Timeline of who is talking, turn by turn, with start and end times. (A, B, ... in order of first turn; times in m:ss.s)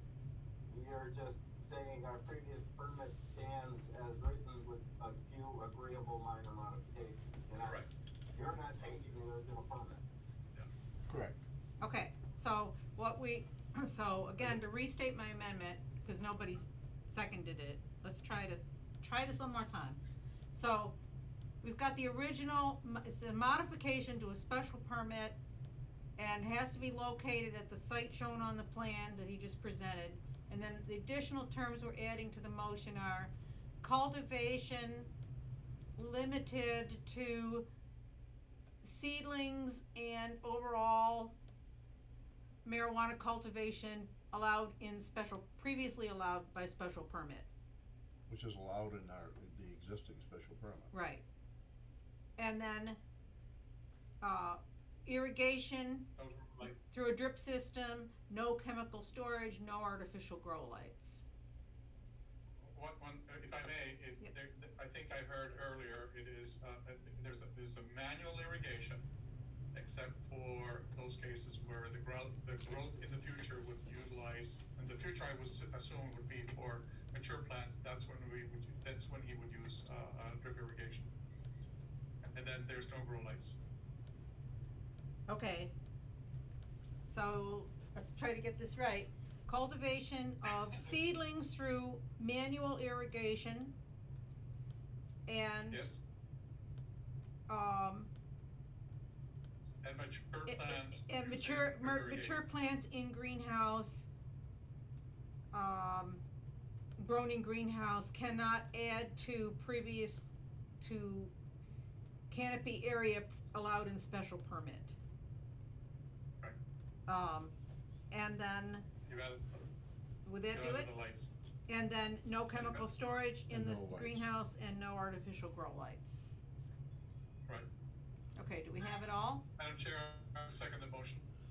0:00.6-0:10.0 A
0:11.1-0:11.4 B
0:11.8-0:20.0 C
0:20.5-0:21.0 C
0:21.6-0:25.4 C
0:26.2-0:35.1 C
0:36.0-0:37.7 C
0:38.8-0:41.3 C
0:42.6-0:47.5 C
0:48.3-0:50.9 B
0:50.9-0:51.2 C
0:52.4-0:53.0 C
0:54.2-0:56.1 C
0:56.2-0:56.8 D
0:56.9-1:01.2 C
1:02.6-1:09.0 D
1:09.7-1:21.1 D
1:22.2-1:23.6 D
1:25.3-1:25.7 C
1:27.0-1:33.7 C
1:35.3-1:35.8 C
1:35.7-1:36.0 D
1:37.5-1:38.1 C
1:39.8-1:42.4 D
1:40.5-1:44.1 C
1:45.5-1:46.2 C
1:47.0-1:51.3 C
1:52.3-1:55.0 C
1:57.1-1:57.5 C
1:58.1-1:58.9 C
1:59.0-1:59.6 D
2:00.2-2:00.9 C
2:00.5-2:01.3 D
2:01.7-2:06.2 C
2:02.5-2:02.8 D
2:03.5-2:04.3 B
2:08.4-2:09.4 C
2:09.6-2:11.3 D